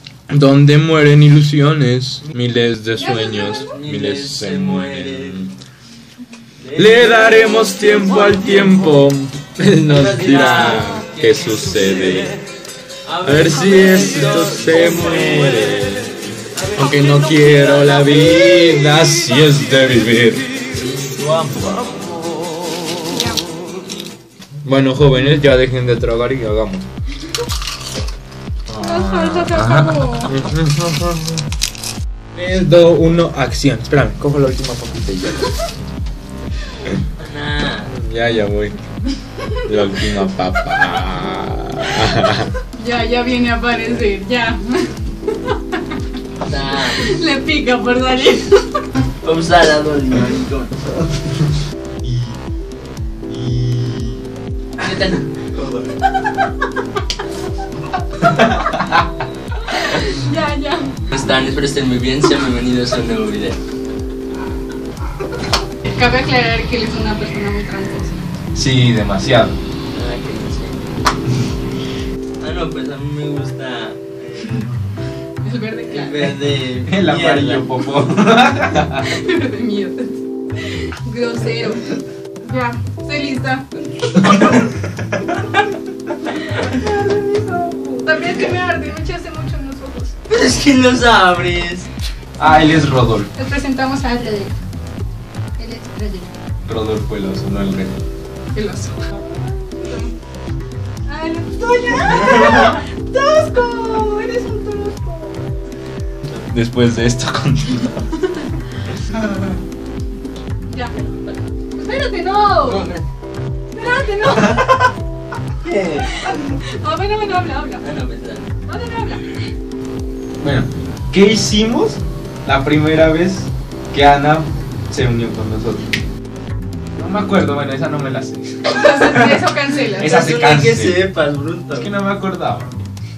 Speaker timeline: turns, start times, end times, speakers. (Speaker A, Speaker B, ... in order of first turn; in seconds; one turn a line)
Speaker A: 0.3-5.5
Speaker B: 3.0-3.7
Speaker C: 3.4-5.4
Speaker C: 6.6-8.7
Speaker A: 6.7-12.3
Speaker C: 9.9-12.3
Speaker C: 13.1-18.6
Speaker A: 13.2-16.2
Speaker A: 16.7-20.5
Speaker C: 20.7-21.9
Speaker B: 23.1-23.4
Speaker A: 24.6-26.8
Speaker A: 28.7-31.4
Speaker B: 28.8-30.3
Speaker A: 32.3-35.8
Speaker C: 37.2-37.9
Speaker A: 37.9-38.8
Speaker A: 39.6-42.5
Speaker B: 42.8-46.0
Speaker C: 46.5-47.0
Speaker B: 47.0-48.9
Speaker C: 49.2-50.8
Speaker A: 52.0-52.4
Speaker A: 53.3-54.2
Speaker C: 54.8-55.8
Speaker A: 58.2-59.0
Speaker B: 59.7-61.0
Speaker C: 61.1-63.6
Speaker B: 65.8-68.2
Speaker A: 68.5-69.5
Speaker C: 69.9-70.8
Speaker C: 72.4-74.7
Speaker B: 75.4-76.3
Speaker C: 75.9-77.7
Speaker A: 76.8-79.2
Speaker B: 79.0-84.6
Speaker B: 86.3-90.1
Speaker C: 90.3-91.9
Speaker A: 92.4-93.3
Speaker B: 92.4-92.8
Speaker B: 93.3-94.5
Speaker B: 95.6-96.3
Speaker A: 96.6-98.0
Speaker B: 98.5-100.1
Speaker B: 101.0-105.4
Speaker C: 102.3-102.7
Speaker A: 106.5-108.0
Speaker B: 110.7-111.0
Speaker B: 111.7-112.9
Speaker C: 112.6-113.0
Speaker B: 113.7-114.8
Speaker A: 114.3-114.7
Speaker C: 115.6-116.2
Speaker B: 116.1-117.8
Speaker C: 117.8-118.5
Speaker B: 118.7-119.3
Speaker A: 120.4-125.9
Speaker A: 127.0-128.8
Speaker B: 128.7-130.2
Speaker C: 129.0-129.4
Speaker A: 130.0-131.0
Speaker C: 130.0-131.9
Speaker A: 131.7-132.7